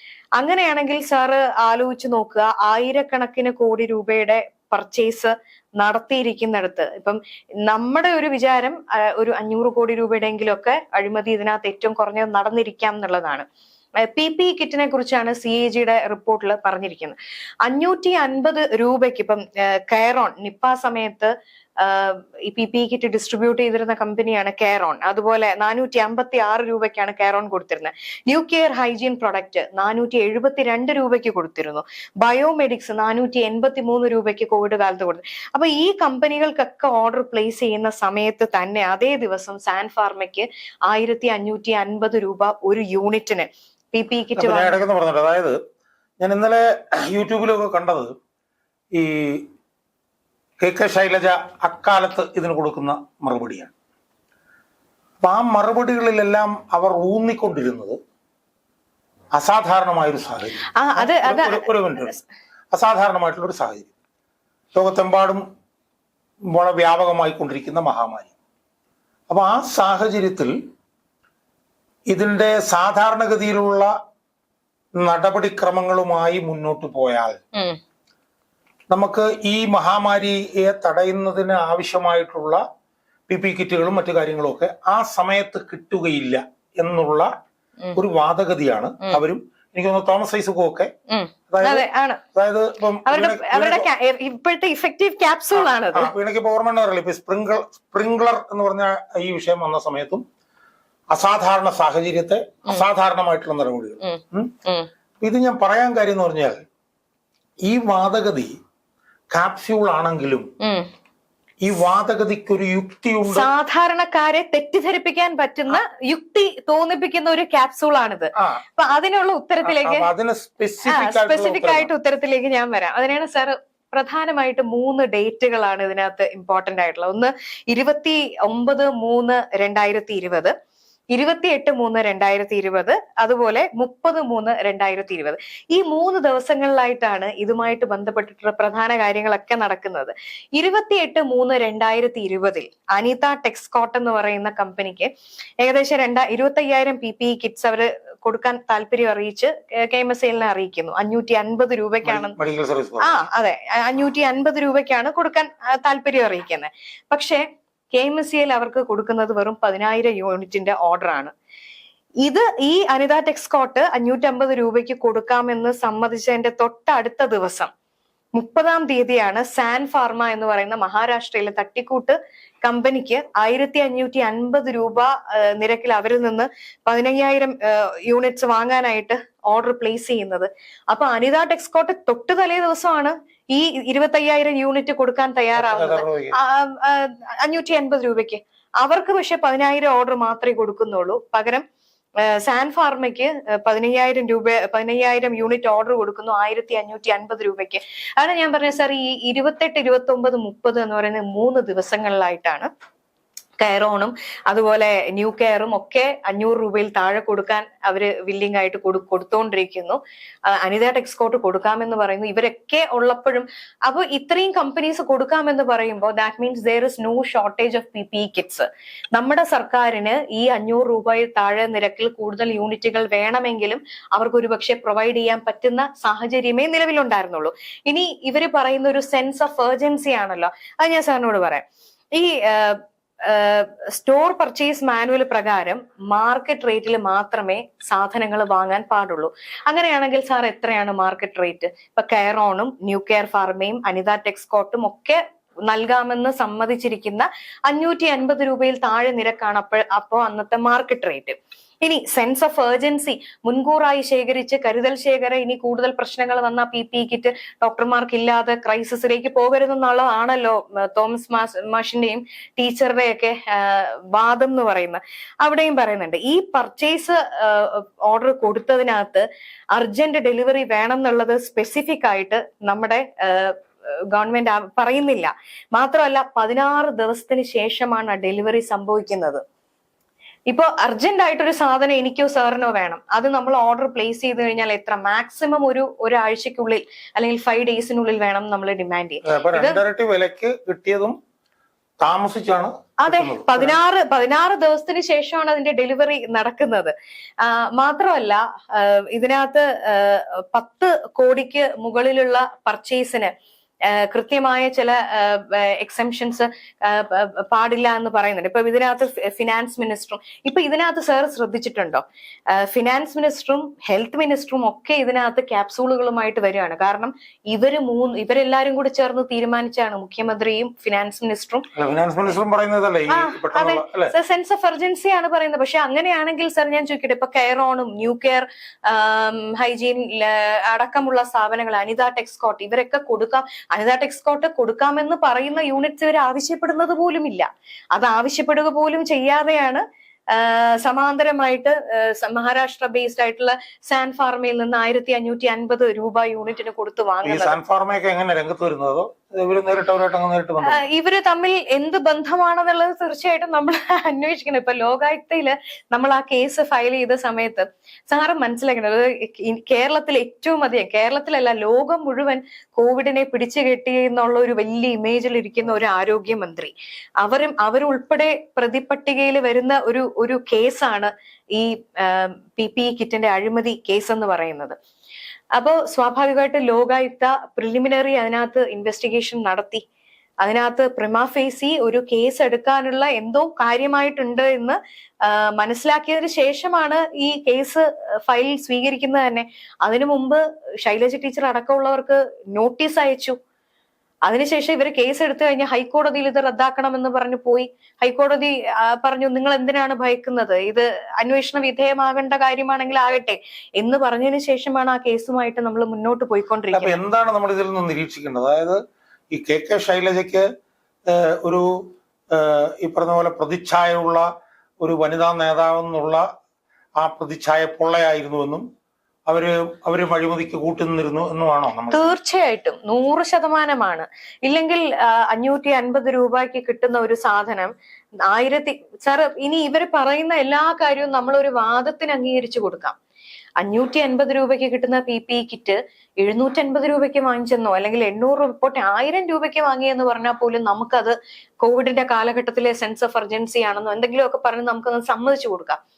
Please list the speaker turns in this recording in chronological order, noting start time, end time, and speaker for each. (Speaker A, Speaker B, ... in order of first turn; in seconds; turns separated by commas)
Speaker A: 0.4-13.4, Speaker A: 14.0-44.8, Speaker B: 44.4-45.6, Speaker B: 46.2-48.1, Speaker B: 48.9-49.5, Speaker B: 50.6-53.7, Speaker B: 55.2-58.0, Speaker B: 59.3-62.1, Speaker A: 60.8-62.2, Speaker B: 62.7-63.9, Speaker B: 64.7-65.4, Speaker B: 66.5-68.3, Speaker B: 69.3-70.5, Speaker B: 72.1-73.9, Speaker B: 75.0-77.4, Speaker B: 78.9-82.6, Speaker B: 83.3-87.3, Speaker B: 87.9-90.9, Speaker A: 91.1-92.2, Speaker B: 91.5-93.9, Speaker A: 93.1-96.1, Speaker B: 95.9-100.2, Speaker B: 101.1-104.5, Speaker A: 104.0-104.9, Speaker B: 105.2-106.6, Speaker B: 107.6-108.5, Speaker B: 109.3-110.5, Speaker A: 110.6-110.9, Speaker B: 111.6-113.5, Speaker A: 113.3-120.1, Speaker B: 118.4-118.6, Speaker B: 119.6-121.9, Speaker A: 120.9-130.5, Speaker A: 131.1-145.1, Speaker A: 145.6-152.4, Speaker B: 152.0-153.1, Speaker A: 153.0-161.3, Speaker A: 162.2-167.7, Speaker A: 168.3-191.6, Speaker B: 185.6-186.4, Speaker A: 192.2-202.7, Speaker A: 203.6-279.4, Speaker A: 280.5-289.8, Speaker B: 289.2-291.1, Speaker B: 292.0-293.8, Speaker A: 293.0-303.3, Speaker A: 303.8-321.7, Speaker B: 321.7-324.1, Speaker A: 323.1-347.6, Speaker B: 347.2-350.8, Speaker A: 350.6-374.8, Speaker A: 375.5-379.8, Speaker A: 380.4-393.4, Speaker A: 394.2-407.0, Speaker B: 406.7-408.8, Speaker B: 409.3-410.5, Speaker B: 411.1-414.3, Speaker B: 414.8-416.3, Speaker B: 417.0-418.6, Speaker B: 419.3-422.1, Speaker A: 421.9-427.7, Speaker A: 428.3-432.9, Speaker A: 433.6-445.8